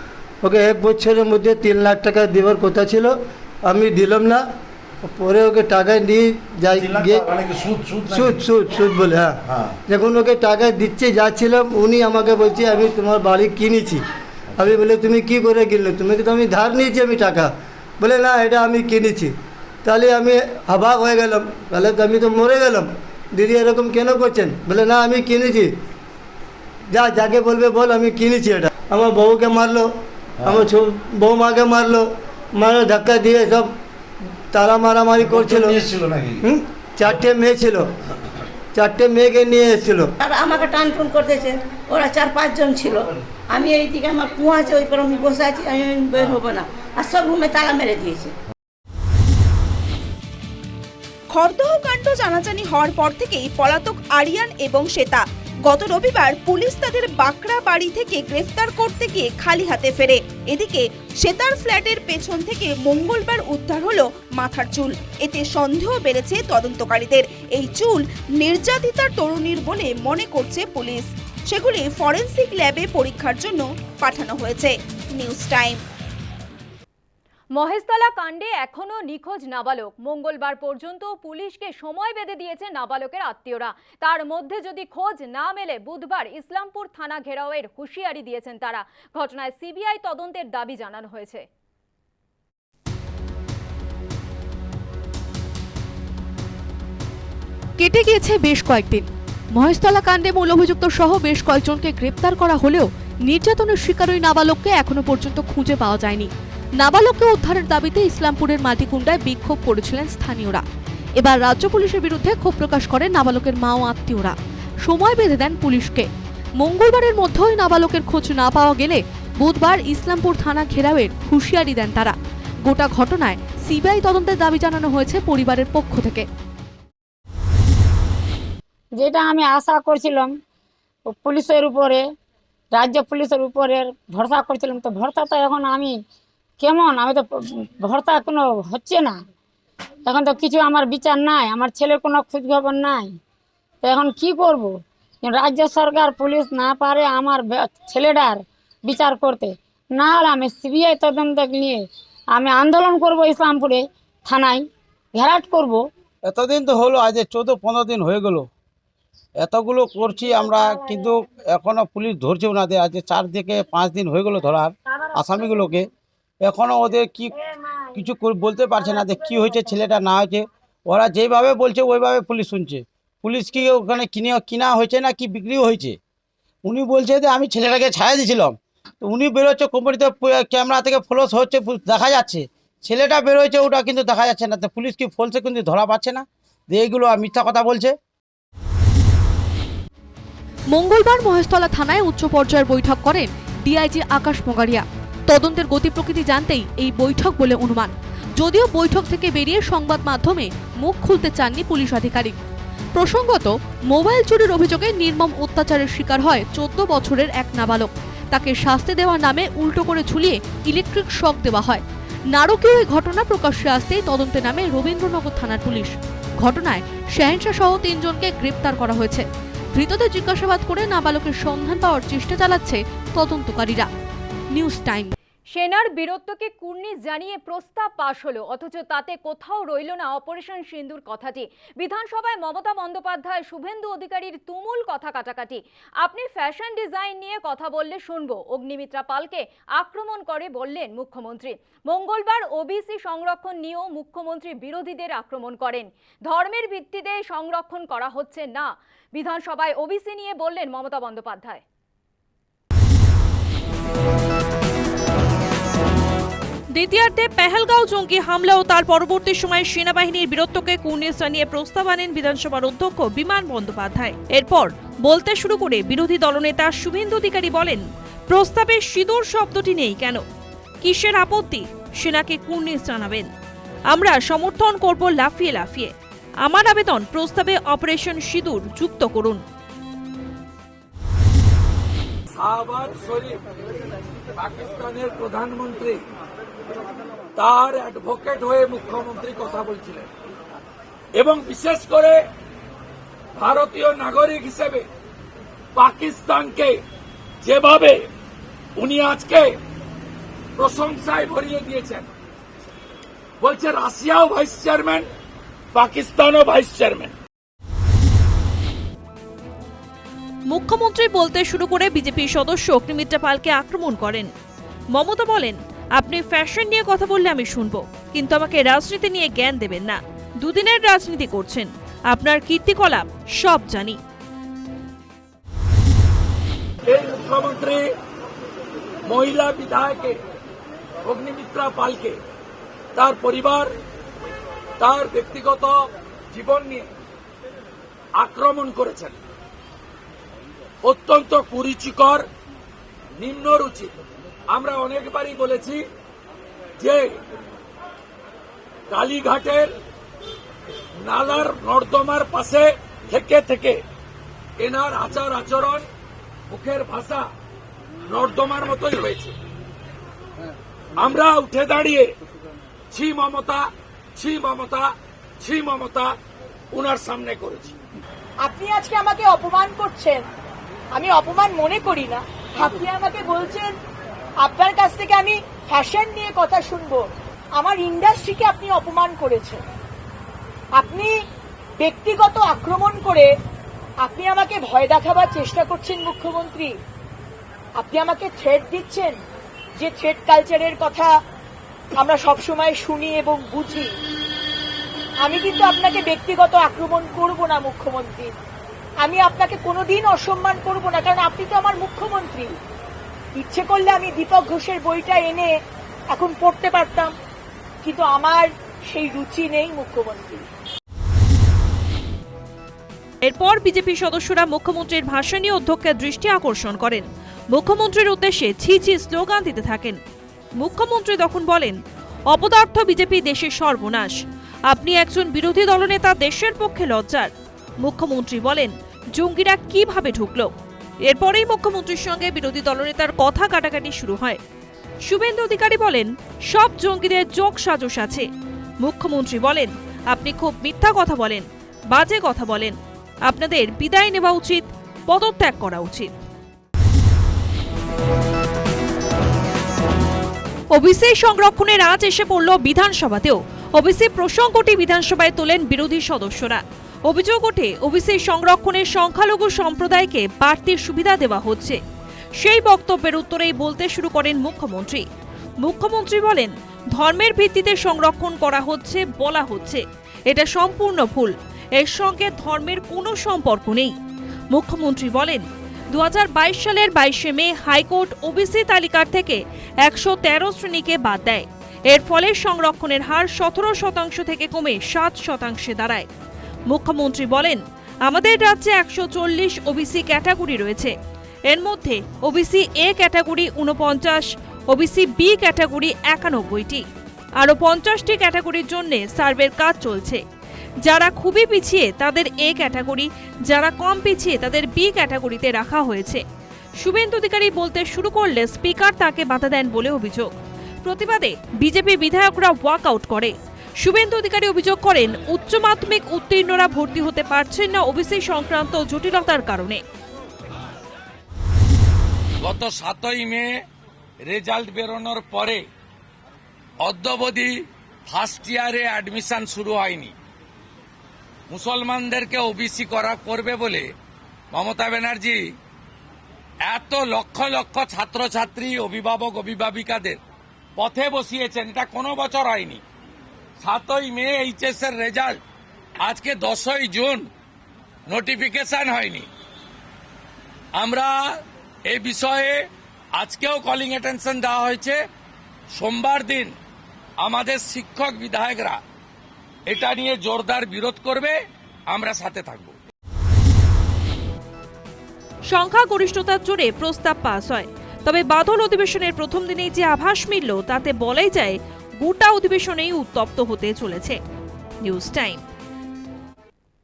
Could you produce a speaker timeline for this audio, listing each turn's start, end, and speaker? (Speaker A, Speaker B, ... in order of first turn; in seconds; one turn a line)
Speaker A: 0.4-4.4
Speaker A: 5.1-7.3
Speaker B: 6.8-8.3
Speaker A: 8.1-14.0
Speaker A: 14.6-19.3
Speaker A: 19.9-25.7
Speaker A: 26.9-29.9
Speaker A: 30.4-33.7
Speaker A: 34.5-35.9
Speaker B: 35.2-36.4
Speaker A: 36.4-37.9
Speaker A: 38.7-40.1
Speaker C: 40.2-48.3
Speaker D: 51.3-75.8
Speaker E: 77.5-91.5
Speaker F: 97.8-110.6
Speaker F: 111.2-114.3
Speaker F: 114.9-116.1
Speaker F: 116.6-122.2
Speaker F: 122.7-126.3
Speaker G: 128.9-130.3
Speaker G: 131.1-132.0
Speaker G: 132.7-136.0
Speaker G: 136.6-139.2
Speaker G: 140.1-143.2
Speaker G: 143.8-154.6
Speaker G: 155.2-155.8
Speaker B: 156.3-158.5
Speaker B: 159.4-165.9
Speaker G: 160.1-161.2
Speaker G: 164.4-165.7
Speaker B: 166.4-167.3
Speaker G: 166.9-168.0
Speaker B: 167.9-176.0
Speaker G: 168.7-169.9
Speaker B: 176.7-187.9
Speaker F: 190.7-202.3
Speaker F: 203.0-223.9
Speaker F: 224.5-225.1
Speaker E: 225.5-251.6
Speaker H: 256.7-270.2
Speaker H: 270.8-273.3
Speaker H: 273.9-279.4
Speaker I: 282.4-283.4
Speaker I: 284.4-286.0
Speaker I: 287.4-290.1
Speaker I: 291.2-292.2
Speaker I: 293.4-294.9
Speaker I: 295.8-296.8
Speaker I: 297.4-298.0
Speaker I: 298.8-299.6
Speaker I: 300.6-302.1
Speaker I: 303.4-305.1
Speaker I: 305.8-307.1
Speaker H: 310.5-314.3
Speaker H: 314.9-324.0
Speaker I: 326.9-327.9
Speaker I: 329.1-330.2
Speaker I: 331.1-332.2
Speaker I: 333.0-333.7
Speaker I: 334.8-336.9
Speaker I: 338.2-339.1
Speaker I: 340.8-342.3
Speaker I: 343.2-343.9
Speaker I: 344.5-345.9
Speaker I: 346.8-347.1
Speaker I: 348.9-349.7
Speaker I: 351.0-353.8
Speaker I: 354.6-355.9
Speaker I: 356.5-357.3
Speaker I: 358.1-359.3
Speaker I: 361.0-362.1
Speaker I: 362.9-366.1
Speaker I: 366.7-367.7
Speaker J: 368.4-370.2
Speaker J: 370.9-373.7
Speaker J: 374.4-379.6
Speaker J: 380.8-381.1
Speaker J: 381.8-383.3
Speaker J: 384.0-386.7
Speaker J: 387.8-389.2
Speaker J: 389.8-391.1
Speaker J: 391.9-393.9
Speaker J: 395.2-398.3
Speaker J: 399.0-402.6
Speaker J: 403.4-405.5
Speaker J: 406.1-407.1
Speaker J: 407.8-410.5
Speaker H: 413.2-420.0
Speaker H: 420.6-421.8
Speaker H: 422.3-424.1
Speaker H: 424.7-430.5
Speaker H: 431.1-434.4
Speaker H: 435.1-438.3
Speaker H: 438.8-446.1
Speaker H: 450.7-461.8
Speaker H: 462.4-465.1
Speaker H: 465.6-474.0
Speaker H: 474.5-486.1
Speaker H: 486.7-490.9
Speaker H: 491.5-496.9
Speaker H: 497.4-500.2
Speaker H: 500.8-506.2
Speaker H: 506.8-510.3
Speaker H: 510.8-519.8
Speaker I: 522.4-523.6
Speaker I: 524.3-525.6
Speaker I: 526.8-527.5
Speaker I: 528.1-530.1
Speaker I: 531.5-533.9
Speaker I: 534.5-535.4
Speaker I: 536.7-540.2
Speaker I: 540.8-542.8
Speaker I: 543.6-545.4
Speaker I: 546.0-547.2
Speaker I: 548.1-549.3
Speaker I: 550.8-551.2
Speaker I: 551.9-552.6
Speaker I: 553.2-555.0
Speaker I: 555.8-556.5
Speaker I: 557.2-558.8
Speaker I: 559.7-561.4
Speaker I: 561.9-562.8
Speaker H: 565.5-574.2
Speaker H: 574.8-575.4